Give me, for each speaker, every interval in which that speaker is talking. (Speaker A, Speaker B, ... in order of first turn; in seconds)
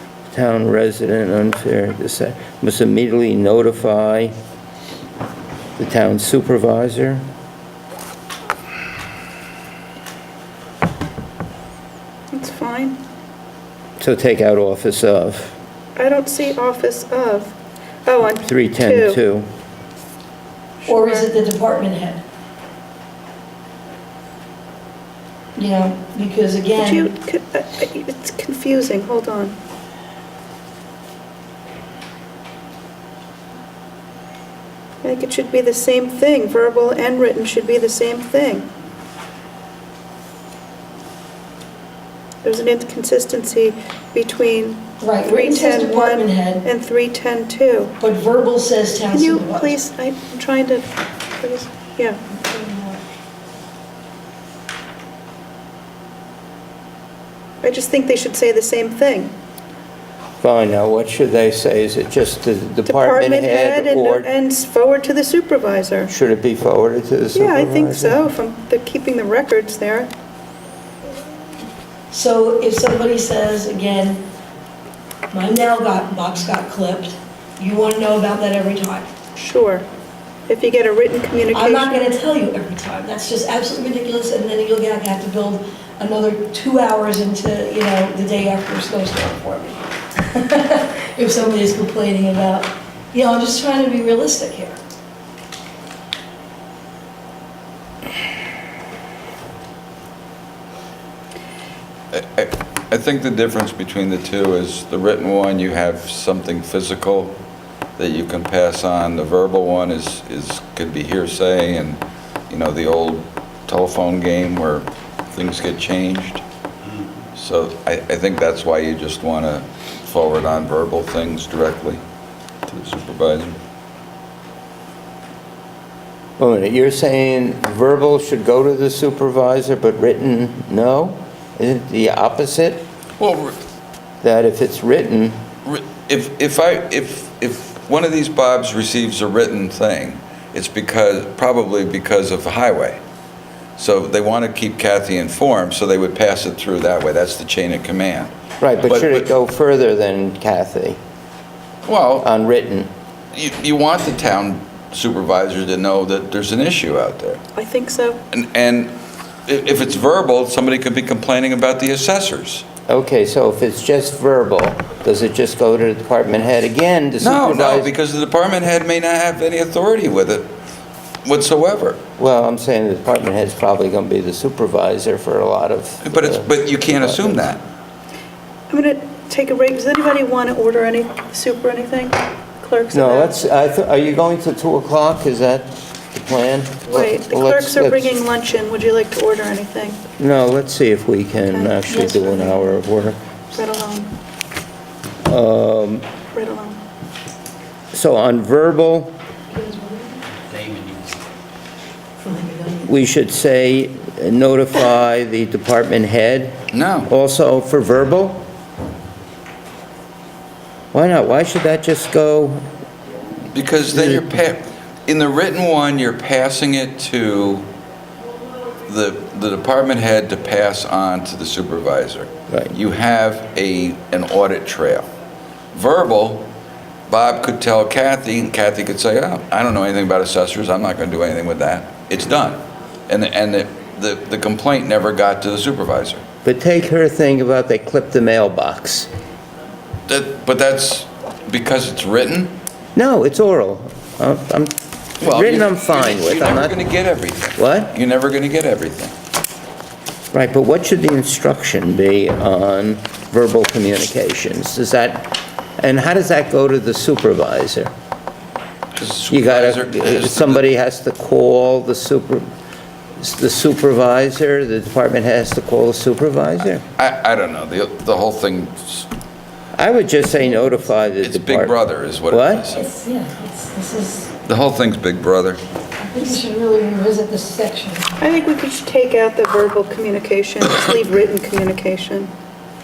Speaker A: 0.3-4.3, 5.8-7.2, 14.0-15.6, 18.4-19.5, 60.4-64.3, 66.1-68.3, 126.4-132.8, 134.2-135.4, 148.6-151.0, 152.2-152.9, 162.9-167.9, 172.2-177.5, 182.9-188.1, 190.2-193.2, 195.2-196.0, 197.9-199.1, 202.8-208.4, 210.9-212.6, 213.9-214.2, 236.4-239.1, 242.9-246.8, 247.5-247.9, 250.3-257.9, 259.3-262.4, 263.2-266.8, 269.7-272.6
Speaker B: 12.3-13.0, 16.0-17.5, 18.1-19.2, 20.8-21.3, 26.8-29.6, 35.0-38.6, 42.4-48.0, 49.1-50.9, 51.4-52.2, 57.6-59.3, 62.9-66.1, 67.3-70.1, 79.3-79.8, 80.5-82.1, 157.6-158.2, 178.7-183.5, 186.8-190.0, 191.4-191.8, 193.5-194.1, 196.3-196.8, 278.2-282.3
Speaker C: 20.9-22.2, 25.5-27.1, 45.0-46.6, 48.0-49.8, 52.3-53.0, 72.1-74.2, 75.3-79.1, 81.5-94.8, 191.9-192.8, 199.5-200.2, 202.2-202.9, 272.7-274.3, 276.0-278.1
Speaker D: 102.1-107.4, 108.0-116.4, 117.3-122.0, 122.7-123.5, 133.2-133.6, 135.6-143.0, 143.8-148.3, 148.8-149.3, 151.8-152.3, 153.3-157.4, 158.3-158.9, 159.5-162.6, 167.2-170.5, 171.2-172.0, 176.0-177.6, 206.7-207.1, 213.5-217.7, 218.9-225.1, 225.7-226.5, 227.1-236.2, 240.1-242.6, 245.2-249.1, 259.0-260.6, 267.0-269.1, 271.2-272.8, 274.4-275.6